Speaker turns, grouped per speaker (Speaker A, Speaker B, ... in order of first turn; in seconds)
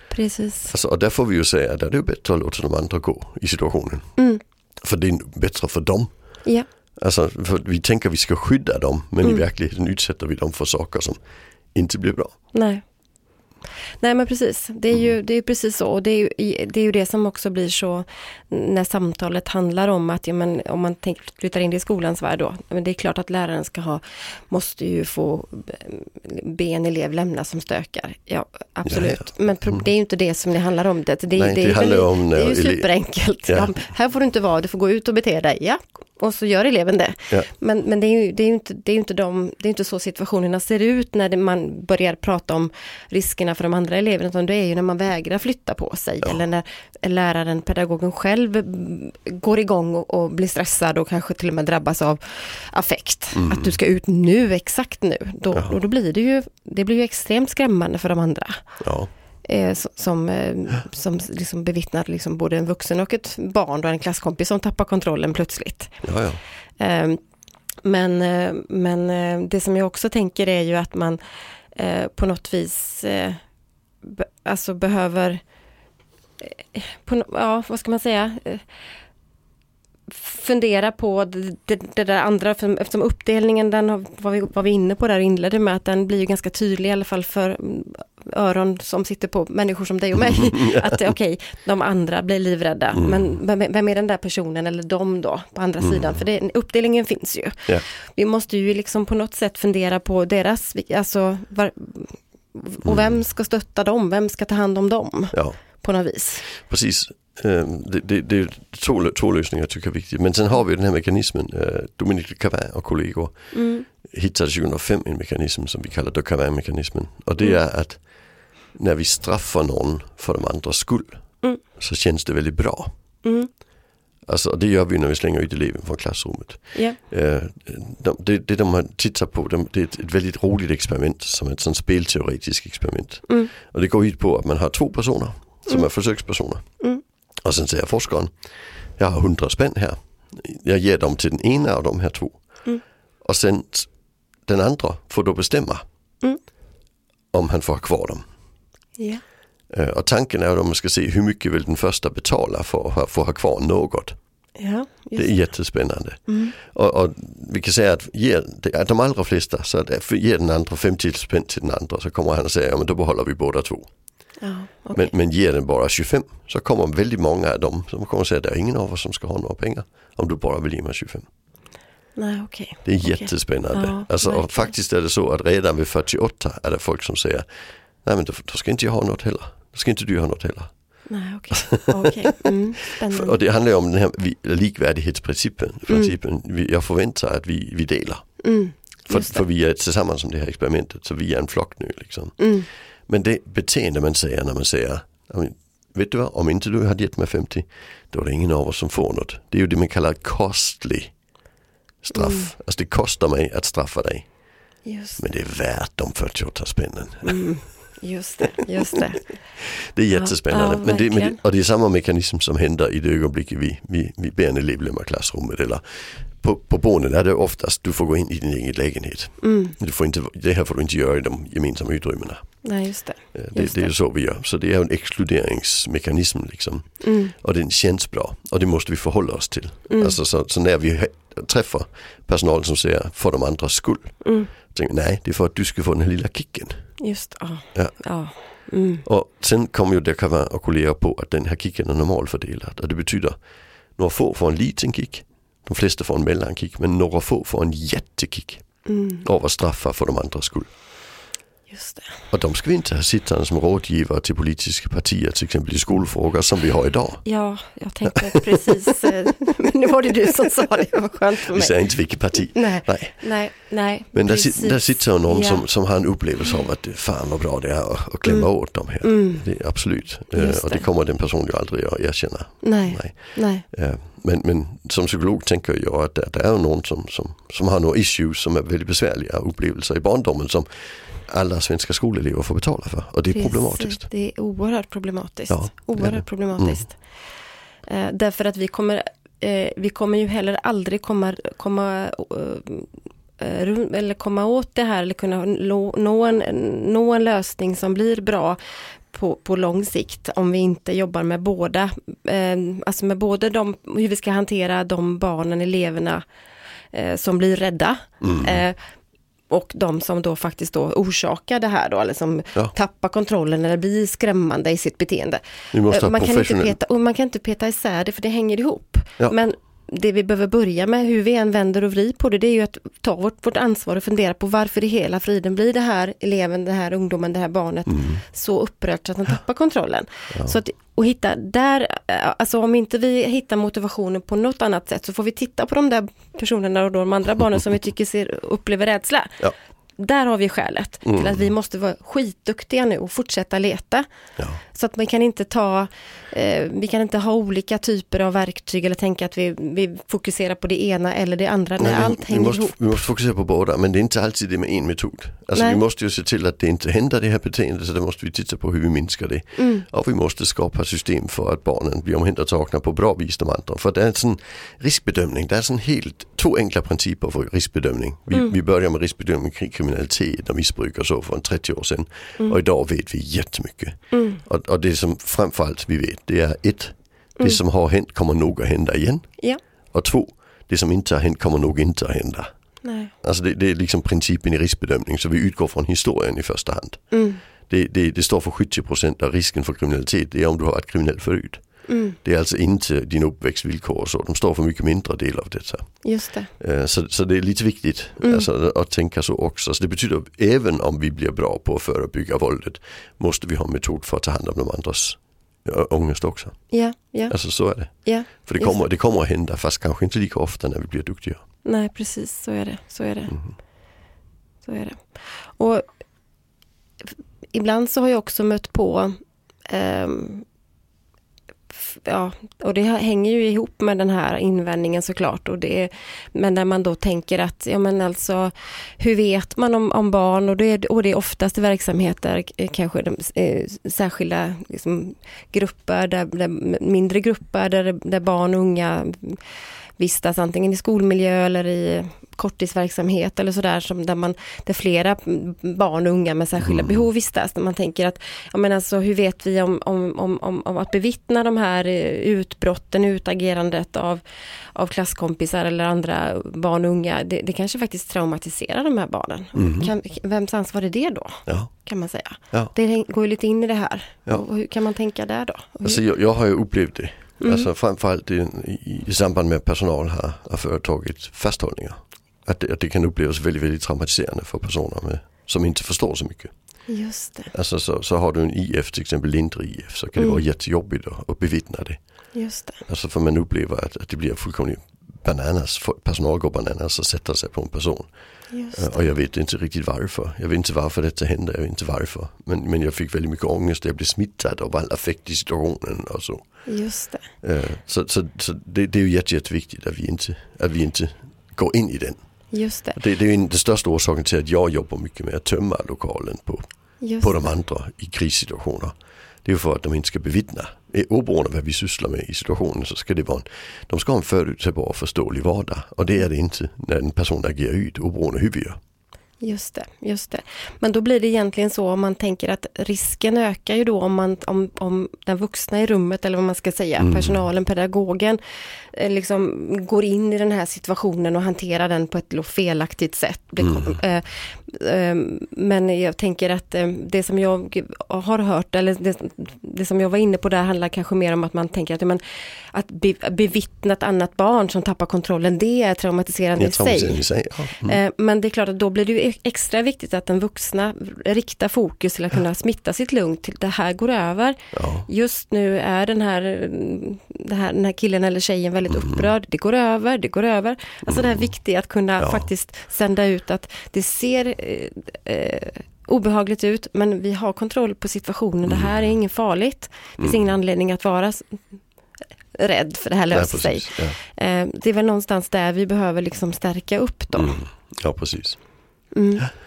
Speaker A: 0.1-0.7, 4.2-4.4, 12.5-12.8, 14.0-58.8, 59.4-66.0, 66.8-67.2, 67.8-71.2, 71.7-73.4, 74.0-75.4, 76.4-78.6, 80.1-106.5, 113.5-113.9, 123.2-123.5, 126.7-127.0, 133.3-133.5, 135.7-135.9, 149.0-149.2, 154.6-155.7, 156.3-156.6, 164.4-165.2, 172.2-174.8, 181.1-183.4, 185.9-186.2, 188.4-189.4, 192.4-192.7, 202.1-202.5, 204.8-205.2, 207.2-209.6, 210.1-211.4, 219.4-219.8, 222.6-223.9, 227.0-227.3, 229.9-230.2, 234.2-234.5, 237.0-239.1, 248.8-249.2, 251.7-252.2, 257.2-265.7, 268.2-270.9, 272.6-273.7, 283.3-287.2, 287.9-298.6, 299.1-306.2, 306.9-308.9, 309.5-339.4, 340.0-344.1, 344.7-352.8, 355.5-355.8, 359.6-359.9, 374.1-374.4, 382.8-383.1, 387.1-387.4, 391.9-392.2, 396.0-396.5, 398.2-398.5, 406.7-408.8, 411.6-413.4, 414.6-415.9, 417.5-419.2, 419.7-420.4, 421.7-439.4, 440.0-454.2, 454.7-466.0, 467.4-467.7, 476.9-477.5, 480.2-480.4, 482.3-482.9, 488.5-489.1, 496.7-497.3, 502.5-503.0, 507.0-507.4, 519.4-571.6, 572.5-577.6, 579.1-579.5
Speaker B: 0.7-4.2, 4.8-11.2, 11.7-12.4, 28.9-29.8, 31.3-33.7, 53.3-53.8, 55.5-55.8, 58.8-59.1, 66.0-66.4, 90.6-91.0, 93.0-93.3, 95.8-96.2, 102.8-103.2, 105.3-105.6, 106.4-122.9, 124.3-136.9, 137.4-145.8, 147.3-148.2, 149.7-154.2, 155.2-163.9, 164.9-171.3, 172.8-177.5, 178.0-181.2, 181.7-182.1, 183.1-188.5, 189.1-201.2, 202.0-207.9, 209.9-222.8, 223.3-237.0, 237.7-238.5, 239.1-243.4, 244.0-250.8, 252.3-257.4, 261.5-263.5, 264.1-284.1, 285.5-286.9, 308.2-308.6, 315.7-316.8, 327.9-328.2, 330.3-330.6, 341.0-341.5, 351.8-379.4, 379.9-382.5, 383.2-406.8, 407.3-411.4, 413.3-413.6, 446.6-447.0, 459.6-459.9, 465.8-476.8, 477.5-482.3, 482.9-496.8, 497.4-508.9, 509.4-518.8, 527.0-527.4, 533.6-534.0, 546.6-548.0, 554.7-555.1, 558.9-559.3, 561.1-561.5, 562.2-562.5, 568.7-569.1, 570.2-570.5, 573.3-574.2, 577.4-578.6